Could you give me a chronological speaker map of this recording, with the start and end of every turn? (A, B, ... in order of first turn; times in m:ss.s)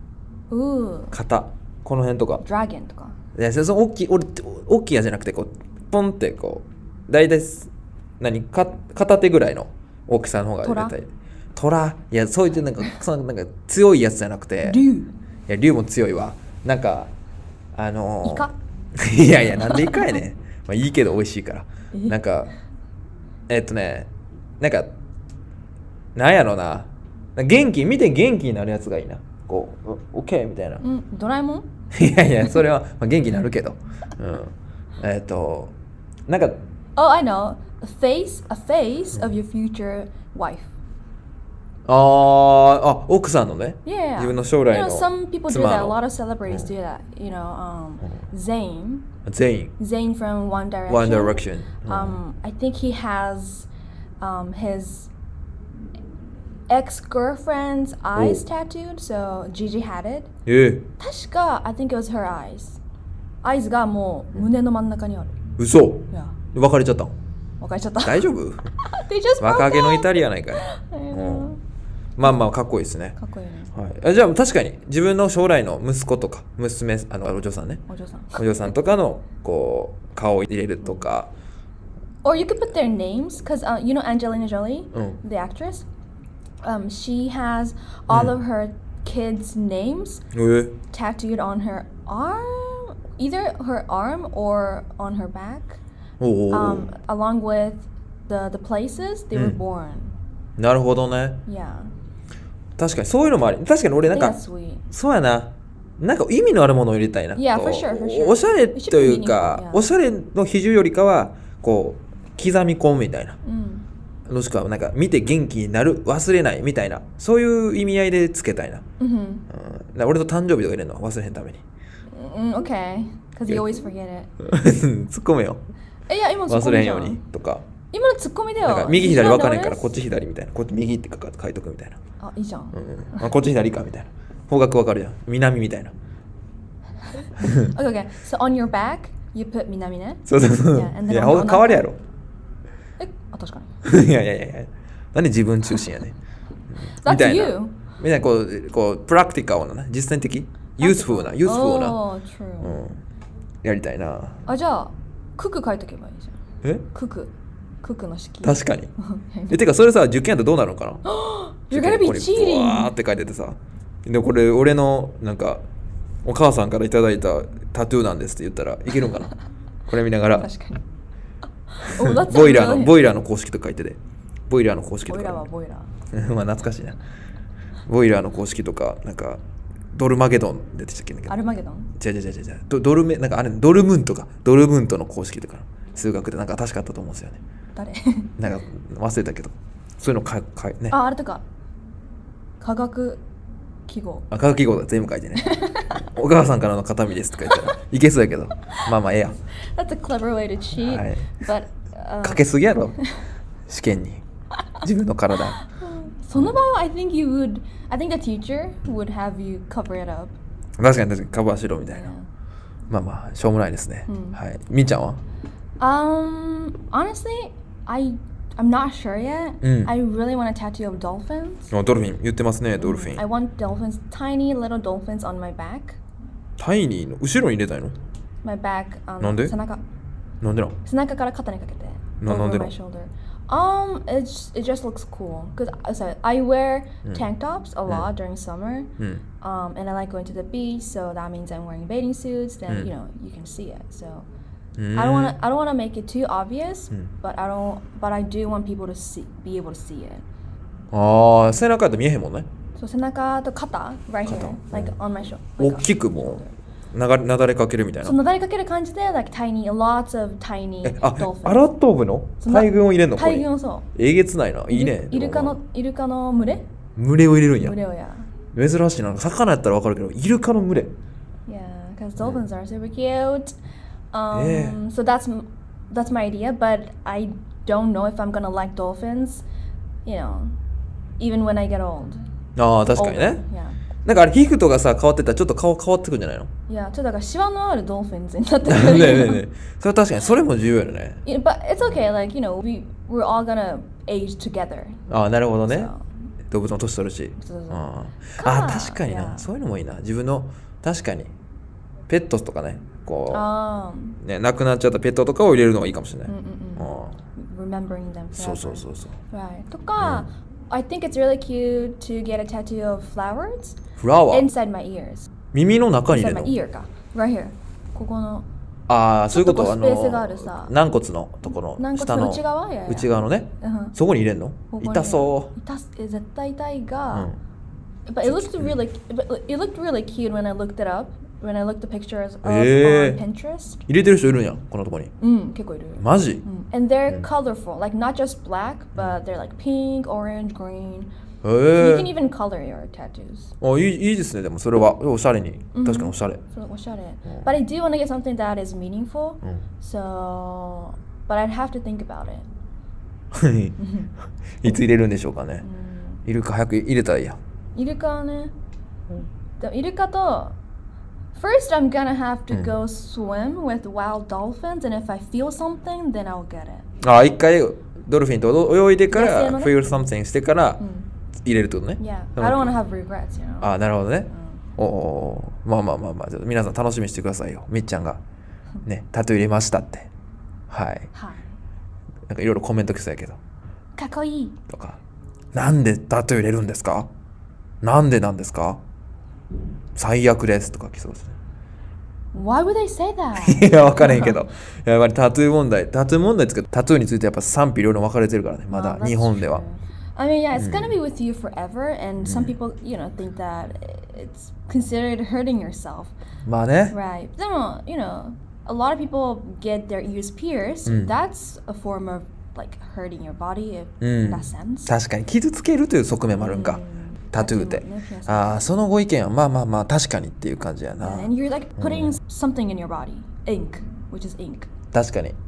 0:00.5-0:01.2 A
0:01.1-0:02.4 B
0:02.4-0:03.2 A
0:03.4-0:14.8 B
0:10.6-0:11.0 A
0:14.6-0:15.1 A
0:15.5-0:17.1 B
0:17.8-0:22.5 B
0:18.2-0:18.5 A
0:19.5-0:20.2 A
0:21.9-0:22.2 A
0:23.5-0:24.9 B
0:26.2-0:30.8 B
0:30.8-0:31.7 A
0:31.9-0:35.7 B
0:36.3-0:36.6 B
0:37.0-0:40.7 A
0:41.9-0:46.7 B
0:43.8-0:49.1 A
0:49.3-0:49.7 B
0:49.8-0:53.7 A
0:50.9-0:52.2 B
0:54.2-0:55.1 A
0:56.7-1:00.3 A
0:58.2-0:58.4 B
1:00.5-1:00.9 B
1:01.0-1:02.8 A
1:03.4-1:05.4 A
1:05.6-1:07.1 B
1:07.6-1:11.6 A
1:08.0-1:08.7 B
1:09.4-1:11.5 B
1:12.2-1:13.2 B
1:13.2-1:13.7 A
1:13.7-1:17.8 B
1:17.9-1:18.4 A
1:18.3-1:21.3 B
1:22.2-1:25.8 A
1:24.9-1:25.2 B
1:26.6-1:30.2 A
1:28.1-1:28.4 B
1:30.3-1:30.8 B
1:30.9-1:35.8 A
1:36.2-1:36.9 B
1:36.5-1:40.1 A
1:39.3-1:39.6 B
1:40.6-1:41.4 B
1:41.5-1:41.9 A
1:42.8-1:44.4 B
1:44.1-1:44.8 A
1:44.9-1:53.4 B
1:47.4-1:49.8 A
1:53.4-1:53.9 A
1:54.3-1:58.8 B
1:59.0-1:59.4 A
1:59.5-2:01.6 B
2:02.1-2:04.3 A
2:04.4-2:05.6 B
2:06.1-2:07.2 A
2:06.5-2:07.6 B
2:07.9-2:09.9 A
2:08.6-2:12.0 B
2:12.2-2:13.3 A
2:12.7-2:15.9 B
2:17.2-2:21.9 A
2:20.3-2:22.0 B
2:23.0-2:23.7 A
2:23.8-2:26.2 B
2:26.8-2:32.0 B
2:26.9-2:27.8 A
2:30.8-2:32.8 A
2:32.6-2:33.0 B
2:33.6-2:34.4 B
2:34.5-2:36.4 A
2:36.9-2:39.6 A
2:38.4-2:38.9 B
2:39.5-2:41.0 B
2:41.0-2:42.9 A
2:41.7-2:45.6 B
2:46.2-2:49.3 B
2:49.9-2:50.5 B
2:50.3-2:50.8 A
2:51.7-2:53.0 A
2:52.0-2:55.5 B
2:55.1-2:55.9 A
2:56.1-2:57.0 B
2:57.9-2:59.4 B
2:59.9-3:01.4 B
3:01.3-3:01.9 A
3:02.0-3:07.4 B
3:07.8-3:08.3 A
3:08.4-3:11.0 B
3:10.9-3:11.4 A
3:12.6-3:13.2 A
3:13.9-3:14.3 A
3:14.3-3:19.4 B
3:15.4-3:16.1 A
3:19.7-3:22.5 A
3:20.7-3:21.4 B
3:22.2-3:23.0 B
3:23.0-3:23.2 A
3:23.7-3:24.2 B
3:24.8-3:25.6 B
3:25.6-3:30.4 A
3:30.8-3:32.1 B
3:31.8-3:32.3 A
3:32.9-3:35.2 B
3:34.1-3:34.4 A
3:35.8-3:41.7 A
3:39.6-3:39.9 B
3:41.7-3:43.2 B
3:42.8-3:46.0 A
3:46.6-3:48.0 B
3:48.4-3:49.8 A
3:49.2-3:49.6 B
3:50.4-3:50.8 B
3:50.8-3:58.9 A
3:52.2-3:52.7 B
3:59.4-4:04.3 A
4:04.8-4:05.4 B
4:05.0-4:10.2 A
4:10.9-4:12.5 B
4:12.8-4:16.5 A
4:14.3-4:15.0 B
4:15.6-4:18.2 B
4:18.0-4:21.7 A
4:20.8-4:25.6 B
4:22.4-4:23.9 A
4:24.7-4:26.7 A
4:27.0-4:27.8 B
4:27.6-4:28.3 A
4:28.5-4:30.9 B
4:31.5-4:33.6 A
4:34.1-4:39.4 A
4:34.3-4:34.8 B
4:40.0-4:40.6 A
4:41.2-4:42.2 A
4:42.6-4:43.4 B
4:42.9-4:43.8 A
4:44.0-4:46.5 B
4:46.7-4:49.4 A
4:48.7-4:51.2 B
4:51.2-4:55.0 A
4:55.1-4:55.9 B
4:55.7-4:56.0 A
4:56.5-5:01.3 B
4:57.4-4:57.9 A
4:58.4-4:59.5 A
5:02.1-5:03.5 B
5:03.3-5:04.2 A
5:04.2-5:07.2 B
5:06.3-5:13.8 A
5:08.4-5:09.2 B
5:10.0-5:10.3 B
5:14.0-5:14.5 B
5:14.3-5:15.3 A
5:15.5-5:16.6 B
5:16.1-5:18.5 A
5:18.9-5:25.5 B
5:19.3-5:20.7 A
5:21.8-5:24.0 A
5:24.7-5:27.3 A
5:27.1-5:27.4 B
5:28.1-5:33.8 A
5:28.2-5:28.8 B
5:32.4-5:33.2 B
5:33.9-5:35.1 B
5:35.2-5:41.1 A
5:36.0-5:36.4 B
5:41.4-5:42.1 B
5:41.8-5:43.5 A
5:43.6-5:46.4 B
5:45.7-5:52.5 A
5:53.3-5:53.8 B
5:53.8-5:54.1 A
5:54.6-5:55.6 B
5:55.6-5:56.2 A
5:56.3-5:57.4 B
5:57.8-5:58.5 A
5:59.6-6:00.6 A
6:01.3-6:06.8 A
6:07.0-6:10.8 B
6:09.1-6:10.0 A
6:10.8-6:11.1 A
6:11.4-6:12.8 B
6:12.0-6:13.8 A
6:13.6-6:18.2 B
6:14.3-6:14.6 A
6:18.9-6:20.1 B
6:20.7-6:21.1 B
6:21.1-6:21.5 A
6:22.3-6:23.4 B
6:24.0-6:24.6 A
6:24.7-6:25.0 B
6:25.5-6:27.1 B
6:27.8-6:28.8 B
6:30.0-6:31.4 B
6:32.3-6:34.4 A
6:33.4-6:39.6 B
6:38.7-6:46.1 A
6:40.6-6:41.0 B
6:42.2-6:42.6 B
6:46.5-6:47.0 B
6:46.9-6:54.9 A
6:50.9-6:51.1 B
6:54.0-6:56.8 B
6:56.3-6:58.7 A
6:57.3-7:02.2 B
7:01.0-7:04.7 A
7:04.9-7:05.4 B